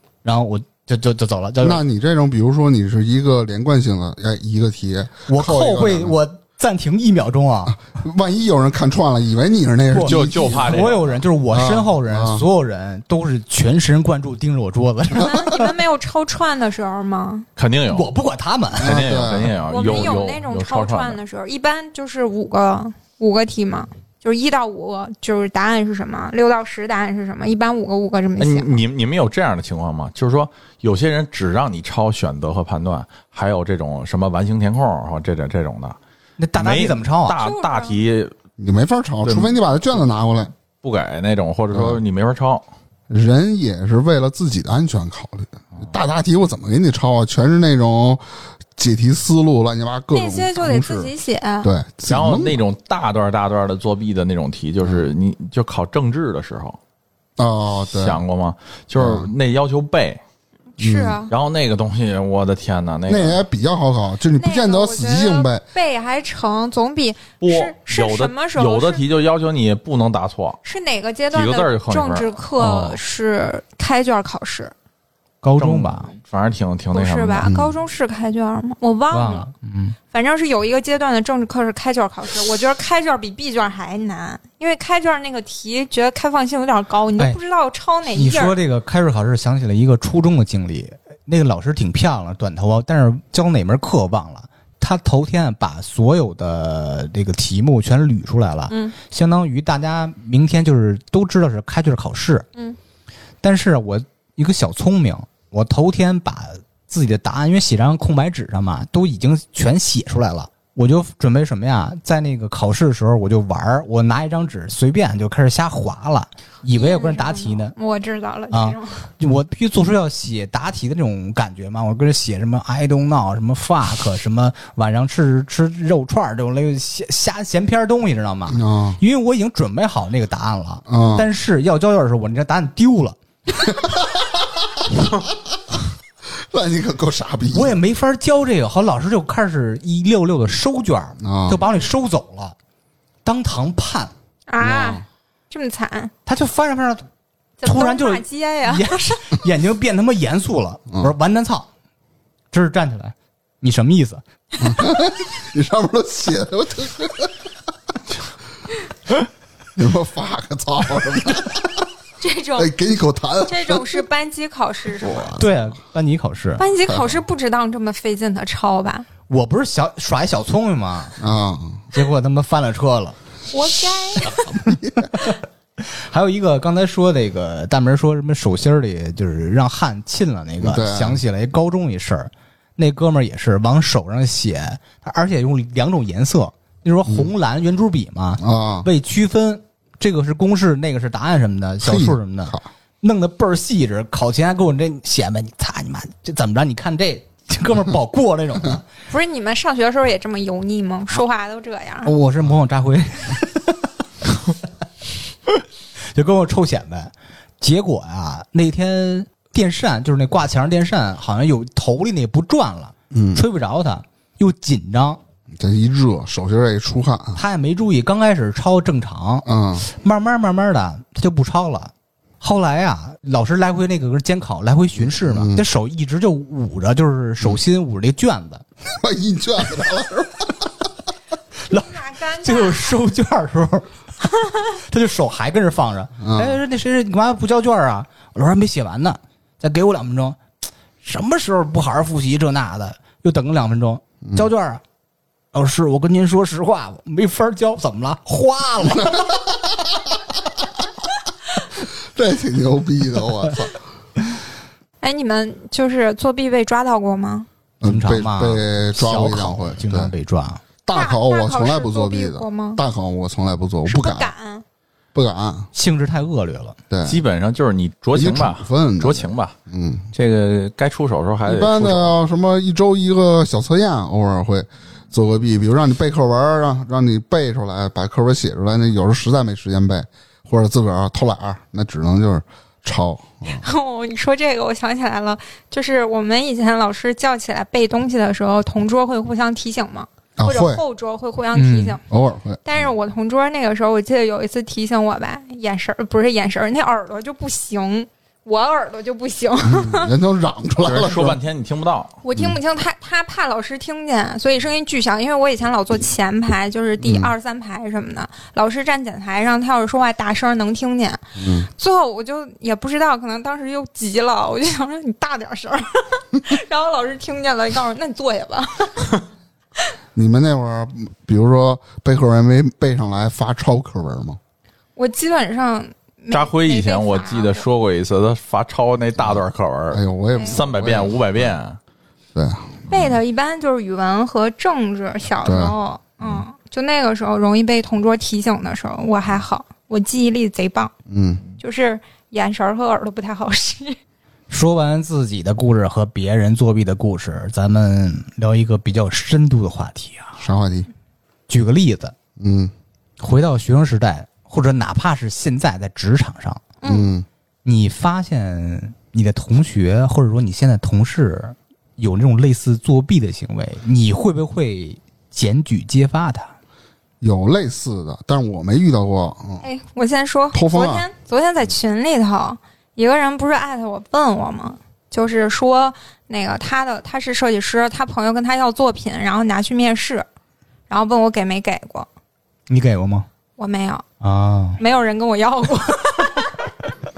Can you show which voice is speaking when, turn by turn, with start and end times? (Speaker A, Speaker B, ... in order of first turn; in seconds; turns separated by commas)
Speaker A: 0.2-1.8, Speaker B: 1.6-6.2, Speaker A: 5.3-7.8, Speaker B: 7.7-10.8, Speaker A: 9.9-15.7, Speaker C: 10.0-11.2, Speaker B: 11.5-12.4, Speaker D: 15.2-17.5, Speaker C: 17.6-18.1, Speaker A: 17.9-19.0, Speaker C: 18.8-21.2, Speaker B: 18.8-20.0, Speaker D: 19.7-28.8, Speaker C: 28.4-36.0, Speaker A: 36.4-37.4, Speaker C: 36.6-38.3, Speaker D: 37.4-38.0, Speaker B: 38.6-40.5, Speaker C: 39.2-39.6, Speaker C: 40.8-42.6, Speaker B: 41.7-42.0, Speaker B: 43.1-48.2, Speaker B: 48.8-51.1, Speaker D: 50.1-51.7, Speaker B: 51.6-52.6, Speaker C: 52.0-56.8, Speaker B: 54.8-55.1, Speaker B: 57.4-58.2, Speaker C: 57.9-60.2, Speaker B: 59.0-59.3, Speaker D: 60.8-61.3, Speaker B: 60.8-61.2, Speaker C: 61.3-63.4, Speaker B: 63.1-65.6, Speaker D: 64.4-69.0, Speaker C: 67.4-70.6, Speaker D: 70.6-74.7, Speaker C: 71.3-73.0, Speaker A: 75.4-76.1, Speaker C: 75.6-77.5, Speaker D: 76.9-79.5, Speaker B: 77.4-77.8, Speaker A: 79.1-80.0, Speaker D: 80.1-88.6, Speaker A: 88.1-102.4, Speaker D: 98.7-99.0, Speaker A: 103.4-117.7, Speaker D: 116.7-119.0, Speaker A: 118.5-133.2, Speaker B: 128.5-129.0, Speaker B: 130.9-131.3, Speaker B: 136.5-137.8, Speaker A: 137.5-142.6, Speaker B: 141.2-141.6, Speaker A: 143.2-144.1, Speaker D: 144.5-146.1, Speaker B: 144.6-145.0, Speaker A: 146.2-147.1, Speaker D: 147.6-149.3, Speaker A: 147.6-151.7, Speaker A: 152.5-154.2, Speaker B: 154.6-157.3, Speaker B: 159.8-161.8, Speaker D: 162.2-162.7, Speaker B: 162.6-164.0, Speaker D: 163.4-165.3, Speaker B: 165.0-165.5, Speaker A: 165.4-166.6, Speaker D: 166.6-169.1, Speaker B: 166.9-167.1, Speaker A: 169.3-171.2, Speaker B: 171.2-171.9, Speaker A: 171.9-173.2, Speaker D: 173.5-174.6, Speaker B: 174.3-175.0, Speaker A: 175.8-198.8, Speaker B: 180.6-181.2, Speaker B: 187.1-187.3, Speaker B: 188.4-188.9, Speaker B: 191.8-192.7, Speaker D: 199.1-202.1, Speaker A: 202.0-203.9, Speaker A: 206.1-215.2, Speaker B: 213.1-213.4, Speaker B: 215.6-217.4, Speaker A: 217.3-228.6, Speaker B: 219.4-219.8, Speaker B: 224.9-225.6, Speaker B: 229.0-230.5, Speaker A: 231.7-233.9, Speaker D: 231.7-232.9, Speaker A: 234.8-240.4, Speaker B: 236.2-236.6, Speaker A: 241.0-244.8, Speaker A: 245.5-249.3, Speaker B: 251.9-253.8, Speaker D: 255.0-257.5, Speaker B: 257.8-260.1, Speaker A: 257.8-260.6, Speaker B: 260.9-264.3, Speaker D: 260.9-262.8, Speaker D: 263.9-264.6, Speaker B: 265.1-265.7, Speaker A: 265.7-266.8, Speaker B: 266.9-267.2, Speaker C: 267.0-269.5, Speaker B: 268.1-270.1, Speaker C: 270.1-272.1, Speaker B: 271.4-283.6, Speaker D: 283.5-292.0, Speaker B: 290.4-290.8, Speaker A: 291.5-292.0, Speaker B: 292.1-292.8, Speaker D: 292.6-300.1, Speaker B: 299.6-301.4, Speaker C: 300.8-302.1, Speaker D: 302.2-311.2, Speaker B: 307.0-307.3, Speaker B: 311.4-311.7, Speaker D: 311.8-319.2, Speaker B: 320.1-324.4, Speaker D: 324.9-327.6, Speaker C: 326.3-331.8, Speaker B: 329.9-331.5, Speaker D: 330.3-330.6, Speaker B: 332.3-333.2, Speaker D: 332.9-340.9, Speaker B: 335.4-336.4, Speaker B: 341.1-341.4, Speaker D: 341.6-344.0, Speaker A: 344.5-350.4, Speaker B: 350.4-350.9, Speaker A: 351.5-352.1, Speaker B: 352.4-352.7, Speaker A: 353.2-356.6, Speaker D: 356.8-357.1, Speaker B: 356.8-357.2, Speaker A: 357.6-366.5, Speaker B: 367.2-369.6, Speaker D: 369.6-380.3, Speaker B: 370.5-371.1, Speaker D: 380.9-382.1, Speaker A: 382.7-383.3, Speaker D: 383.6-384.0, Speaker A: 384.2-384.8, Speaker D: 384.8-386.7